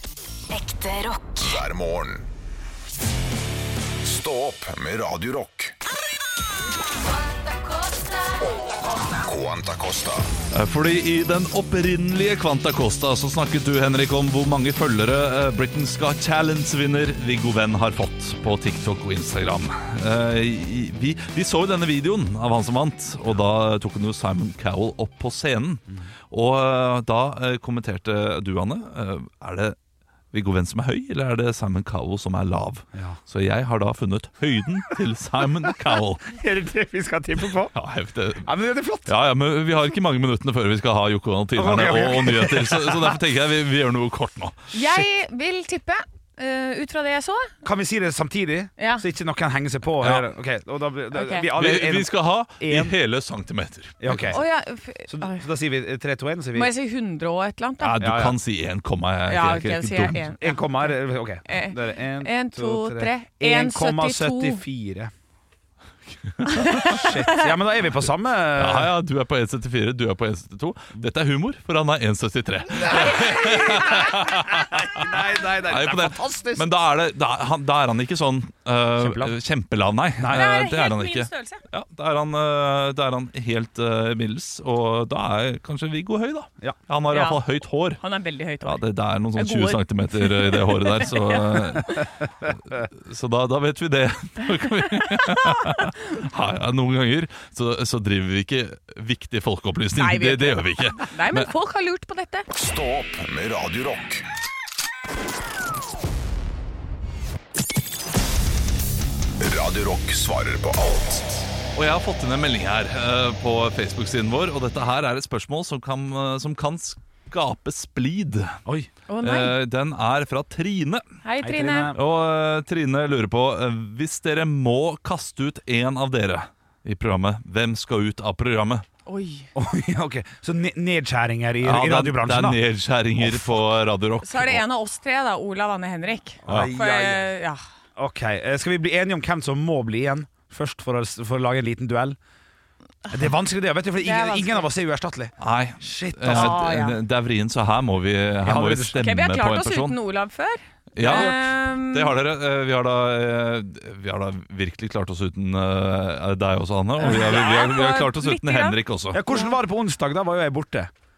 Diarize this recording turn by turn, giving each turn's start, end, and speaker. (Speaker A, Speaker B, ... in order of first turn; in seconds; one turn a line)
Speaker A: 0.5-1.4
Speaker B: 1.4-2.3
Speaker B: 4.0-5.8
Speaker A: 7.2-8.6
Speaker B: 9.1-10.3
Speaker C: 10.5-29.8
Speaker C: 30.3-36.4
Speaker D: 32.9-33.2
Speaker D: 36.3-37.7
Speaker C: 37.7-38.5
Speaker D: 38.4-39.1
Speaker C: 39.0-45.0
Speaker D: 41.5-43.2
Speaker E: 44.7-47.5
Speaker D: 47.6-52.9
Speaker E: 48.8-49.0
Speaker C: 50.0-50.3
Speaker E: 51.1-51.5
Speaker C: 51.5-54.4
Speaker D: 54.0-54.4
Speaker E: 54.3-55.4
Speaker D: 55.1-56.7
Speaker E: 56.5-58.0
Speaker C: 57.8-60.3
Speaker D: 58.0-58.4
Speaker E: 59.3-64.6
Speaker D: 60.4-65.1
Speaker C: 66.3-66.8
Speaker E: 66.5-67.5
Speaker D: 66.8-69.0
Speaker C: 68.6-88.0
Speaker D: 72.9-76.7
Speaker D: 79.0-79.3
Speaker D: 80.2-80.6
Speaker E: 80.3-81.6
Speaker E: 87.1-87.4
Speaker E: 88.0-92.1
Speaker C: 88.6-101.5
Speaker E: 95.2-95.8
Speaker E: 100.0-102.5
Speaker B: 102.5-104.3
Speaker B: 109.4-111.5
Speaker C: 111.8-118.6
Speaker D: 118.7-118.9
Speaker E: 119.1-119.5
Speaker C: 119.2-121.0
Speaker E: 121.2-121.9
Speaker D: 121.4-122.0
Speaker C: 121.9-128.8
Speaker E: 129.1-129.5
Speaker D: 129.6-132.6
Speaker C: 131.6-134.6
Speaker D: 133.2-133.7
Speaker E: 134.2-137.6
Speaker D: 136.4-137.3
Speaker C: 136.5-136.7
Speaker D: 138.0-142.2
Speaker D: 143.1-146.6
Speaker E: 144.0-144.7
Speaker C: 145.4-150.0
Speaker E: 146.3-147.0
Speaker D: 148.4-149.0
Speaker E: 148.9-152.2
Speaker C: 150.9-159.2
Speaker D: 151.0-151.4
Speaker E: 157.0-159.6
Speaker D: 159.1-160.9